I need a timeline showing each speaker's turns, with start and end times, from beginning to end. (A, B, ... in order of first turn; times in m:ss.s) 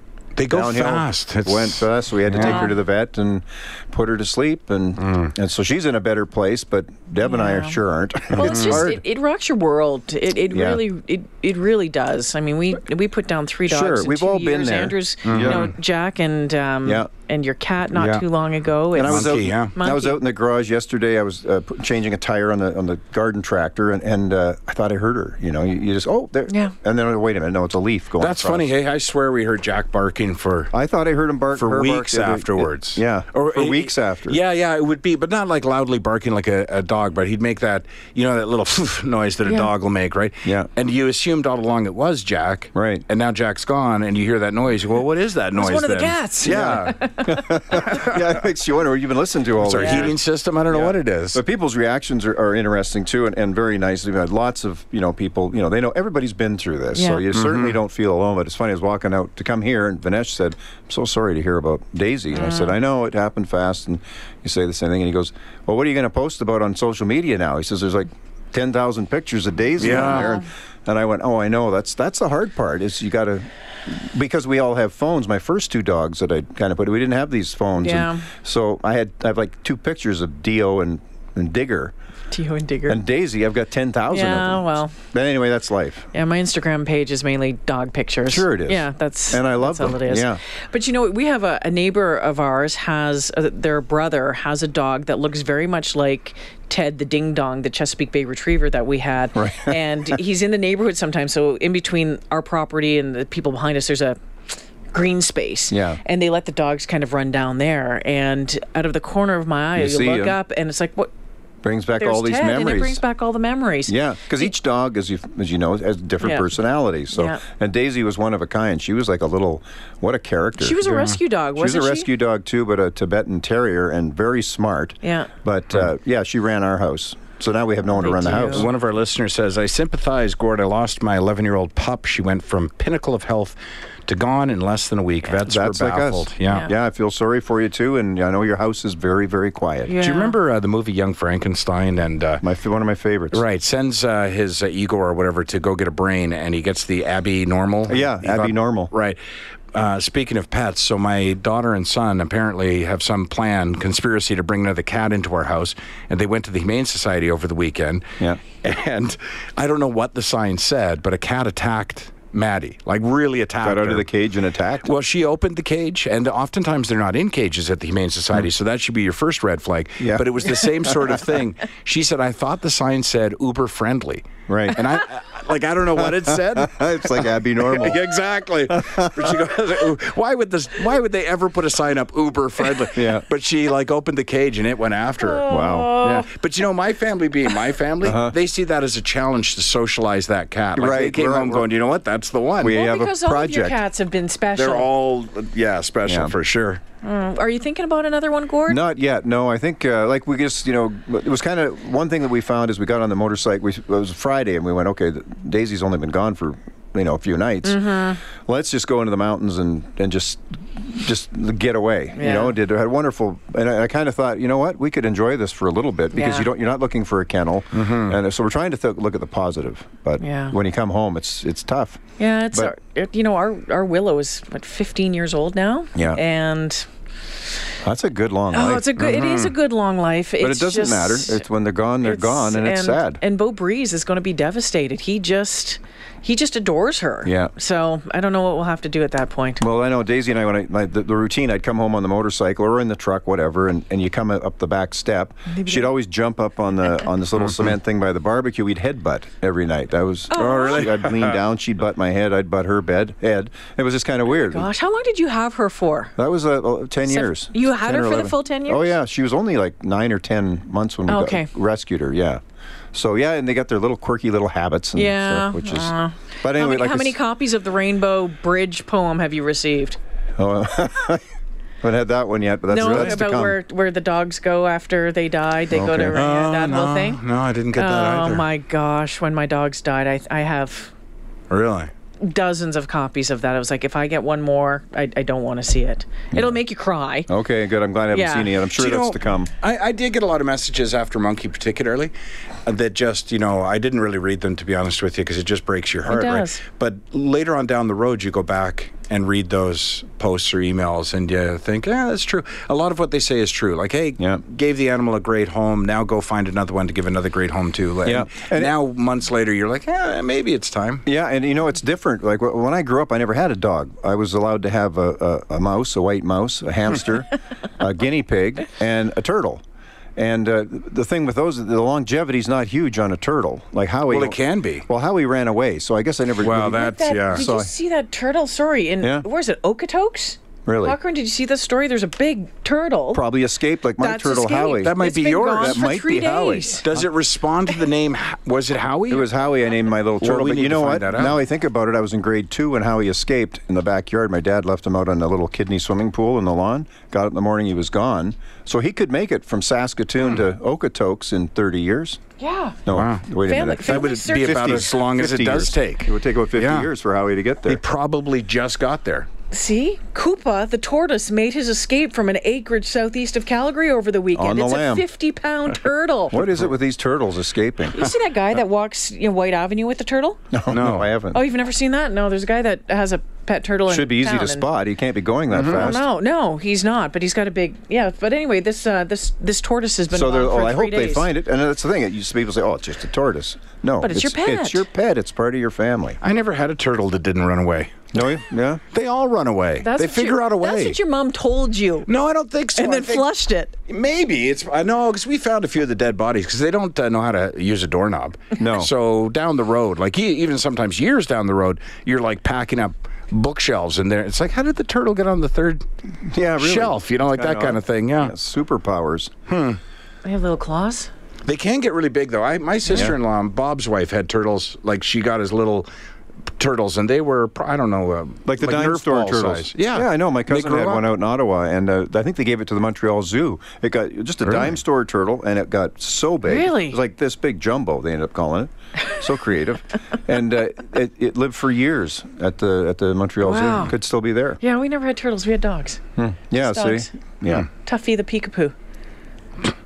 0:00.4-0:02.7 A
0:00.5-0:09.0 B
0:02.4-0:02.8 C
0:07.2-0:07.8 C
0:08.3-0:20.2 C
0:08.4-0:08.8 A
0:10.5-0:10.8 B
0:13.6-0:15.7 B
0:15.2-0:15.7 A
0:18.0-0:18.2 A
0:19.0-0:28.7 B
0:19.0-0:19.7 A
0:26.5-0:26.7 C
0:28.2-0:30.7 A
0:30.7-0:34.4 B
0:31.5-0:47.0 A
0:42.7-0:43.0 B
0:45.6-0:47.5 C
0:46.5-0:50.2 B
0:47.7-0:48.2 A
0:49.6-0:51.4 A
0:49.8-0:50.0 C
0:50.7-1:21.9 B
0:56.9-0:57.2 C
0:57.3-0:57.8 A
1:02.3-1:02.8 C
1:09.8-1:10.4 A
1:17.8-1:18.3 C
1:22.3-1:23.0 C
1:22.9-1:26.1 B
1:24.1-1:25.0 C
1:26.1-1:44.2 C
1:28.2-1:30.4 B
1:39.4-1:39.8 B
1:44.9-1:51.1 C
1:45.7-1:46.0 B
1:49.8-1:50.4 B
1:51.6-1:53.0 B
1:52.0-1:54.5 C
1:53.9-2:00.9 B
1:56.2-1:56.5 C
1:57.1-1:57.4 C
2:00.6-2:02.1 C
2:00.8-2:01.2 A
2:01.6-2:08.7 B
2:05.0-2:05.3 C
2:07.9-2:08.7 C
2:08.5-2:16.7 A
2:15.4-2:19.9 B
2:19.9-2:20.4 C
2:20.0-2:22.4 A
2:22.4-2:23.4 B
2:23.3-2:29.2 A
2:27.9-2:28.9 B
2:29.7-2:38.0 A
2:38.6-2:44.1 A
2:43.6-2:44.9 B
2:44.8-3:05.5 A
2:50.0-2:51.2 B
2:54.5-2:54.8 B
2:56.0-2:58.0 B
2:58.7-2:59.1 B
3:02.9-3:03.2 B
3:05.2-3:06.2 C
3:05.5-3:06.3 B
3:06.1-3:12.8 A
3:08.0-3:08.4 B
3:10.8-3:11.7 B
3:12.6-3:13.8 B
3:12.7-3:14.9 C
3:14.5-3:16.8 A
3:16.0-3:16.3 B
3:17.0-3:18.8 C
3:18.7-3:42.0 B
3:27.6-3:28.2 C
3:32.2-3:32.5 C
3:36.1-3:36.5 C
3:37.7-3:38.2 A
3:40.2-3:40.6 C
3:42.2-3:46.8 C
3:46.0-3:46.2 B
3:47.8-3:48.9 B
3:48.5-3:51.4 C
3:49.0-3:49.5 A
3:50.4-3:53.2 B
3:52.0-3:59.6 C
3:57.2-3:57.5 B
3:59.6-4:14.7 B
4:05.5-4:05.9 C
4:07.4-4:07.7 A
4:10.3-4:10.9 C
4:10.3-4:11.4 A
4:14.3-4:16.1 C
4:16.2-4:22.4 B
4:17.0-4:19.0 C
4:21.1-4:21.5 C
4:22.9-4:27.2 B
4:25.0-4:30.0 C
4:30.4-4:31.2 B
4:31.8-4:33.6 B
4:32.7-4:37.2 C
4:32.8-4:33.1 A
4:35.7-4:36.2 B
4:36.1-4:38.5 A
4:37.7-4:40.9 C
4:41.5-4:41.9 A
4:42.2-4:47.3 C
4:46.3-4:46.6 B
4:47.3-4:49.5 B
4:48.1-4:48.5 C
4:48.8-4:52.1 A
4:52.6-5:11.0 A
4:56.0-4:56.6 C
5:08.0-5:08.7 B
5:11.0-5:19.6 B
5:20.2-5:27.7 B
5:24.1-5:24.8 A
5:26.4-5:27.5 A
5:26.6-5:33.2 C
5:29.0-5:29.2 B
5:30.6-5:31.0 B
5:33.1-5:35.0 B
5:34.0-5:36.8 C
5:34.7-5:35.8 A
5:35.5-5:36.8 B
5:36.8-5:39.2 A
5:39.1-5:52.2 B
5:40.2-5:41.4 A
5:52.4-5:52.8 C
5:52.8-5:57.8 B
5:52.9-5:53.2 A
5:53.4-5:54.8 C
5:53.8-5:56.9 A
5:57.6-5:59.3 A
5:59.5-6:06.4 C
6:04.3-6:05.0 B
6:06.3-6:08.0 B
6:07.9-6:10.4 C
6:10.5-6:11.4 B
6:10.7-6:11.1 A
6:11.3-6:14.6 C
6:13.9-6:16.1 B
6:15.5-6:16.0 A
6:15.7-6:21.3 C
6:20.1-6:26.2 B
6:24.0-6:24.8 C
6:26.2-6:28.2 A
6:28.1-6:28.8 B
6:28.9-6:31.0 A
6:29.8-6:32.1 C
6:32.1-6:33.3 A
6:32.8-6:33.8 C
6:33.9-6:45.8 A
6:38.6-6:38.9 B
6:46.2-6:49.3 B
6:46.6-6:48.3 A
6:49.5-6:49.8 A
6:50.2-6:51.1 C
6:51.5-6:55.9 A
6:56.6-7:01.0 A
6:58.5-7:14.6 B
7:04.4-7:04.8 A
7:06.4-7:07.0 C
7:13.4-7:13.9 C
7:14.6-7:16.0 C
7:16.2-7:17.7 B
7:16.6-7:17.1 C
7:17.8-7:18.8 C